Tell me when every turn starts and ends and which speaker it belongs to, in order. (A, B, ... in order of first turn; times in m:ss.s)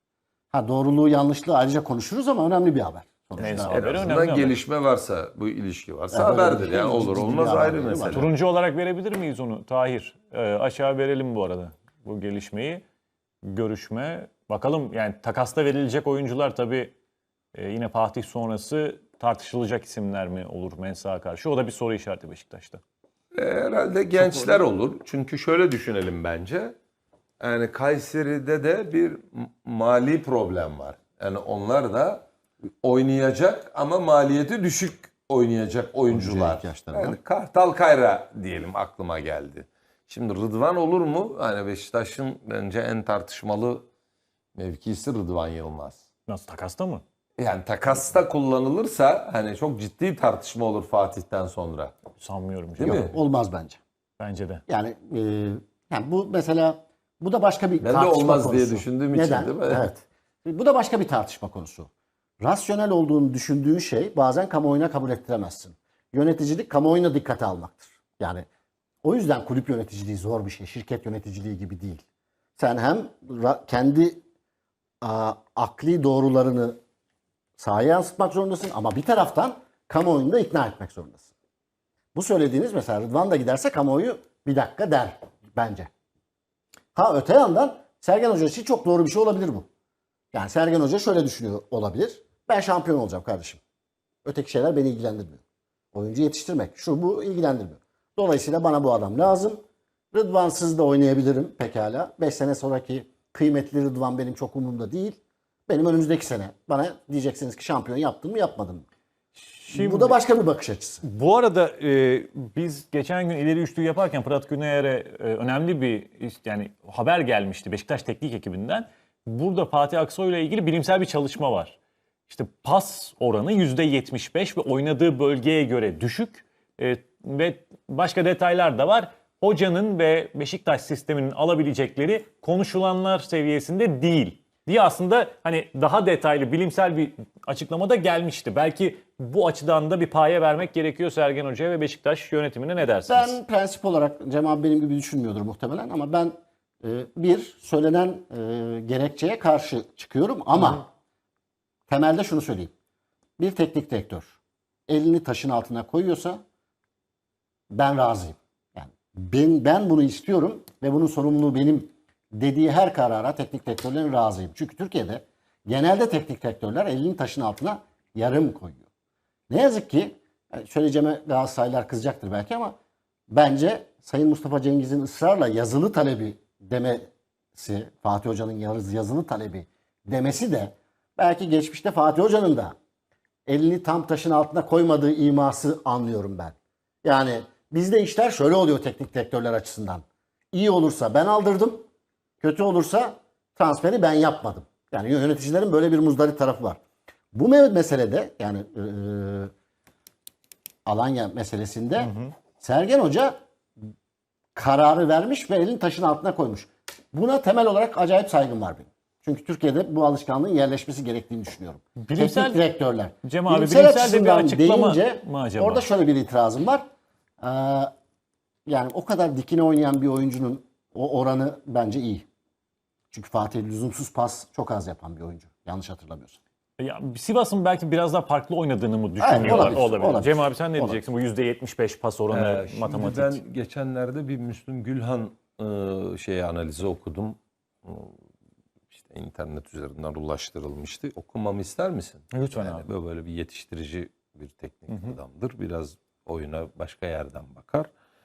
0:00.5-0:04.1 A
0:03.4-0:04.6 B
0:03.4-0:08.3 C
0:06.1-0:08.3 A
0:08.1-0:12.8 B
0:13.4-0:16.9 B
0:17.6-0:22.8 B
0:23.4-0:26.7 C
0:24.2-0:24.6 B
0:27.4-0:32.3 C
0:32.8-0:43.9 C
0:36.1-0:37.2 A
0:44.6-0:46.0 C
0:46.3-0:47.0 B
0:47.4-0:52.0 C
0:52.2-0:53.1 B
0:52.8-0:53.1 C
0:52.8-0:53.8 A
0:54.2-0:54.6 B
0:54.7-1:01.9 A
0:57.8-0:59.9 C
1:02.4-1:08.5 A
1:09.0-1:12.0 A
1:12.6-1:14.2 A
1:15.0-1:16.8 A
1:17.6-1:21.3 A
1:22.1-1:25.9 A
1:27.0-1:29.7 A
1:30.3-1:33.6 A
1:34.2-1:35.4 A
1:35.9-1:39.6 A
1:40.1-1:48.9 A
1:49.4-1:50.2 B
1:49.7-1:51.0 A
1:51.0-2:01.8 B
2:02.3-2:23.4 B
2:23.1-2:30.9 A
2:31.9-2:32.7 A
2:33.4-2:34.4 A
2:34.9-2:36.4 A
2:37.7-2:48.8 A
2:49.5-2:52.8 A
2:53.3-3:02.7 A
3:03.5-3:11.8 A
3:12.4-3:16.8 A
3:17.3-3:19.5 A
3:20.9-3:23.4 A
3:22.1-3:22.3 B
3:24.6-3:36.8 A
3:32.0-3:32.6 B
3:33.2-3:35.8 B
3:37.4-3:37.9 A
3:38.7-3:42.3 A
3:43.1-3:46.4 A
3:46.8-3:53.4 B
3:49.2-3:51.0 A
3:52.3-3:58.2 C
3:58.9-4:07.9 C
4:02.3-4:02.9 B
4:04.9-4:05.2 B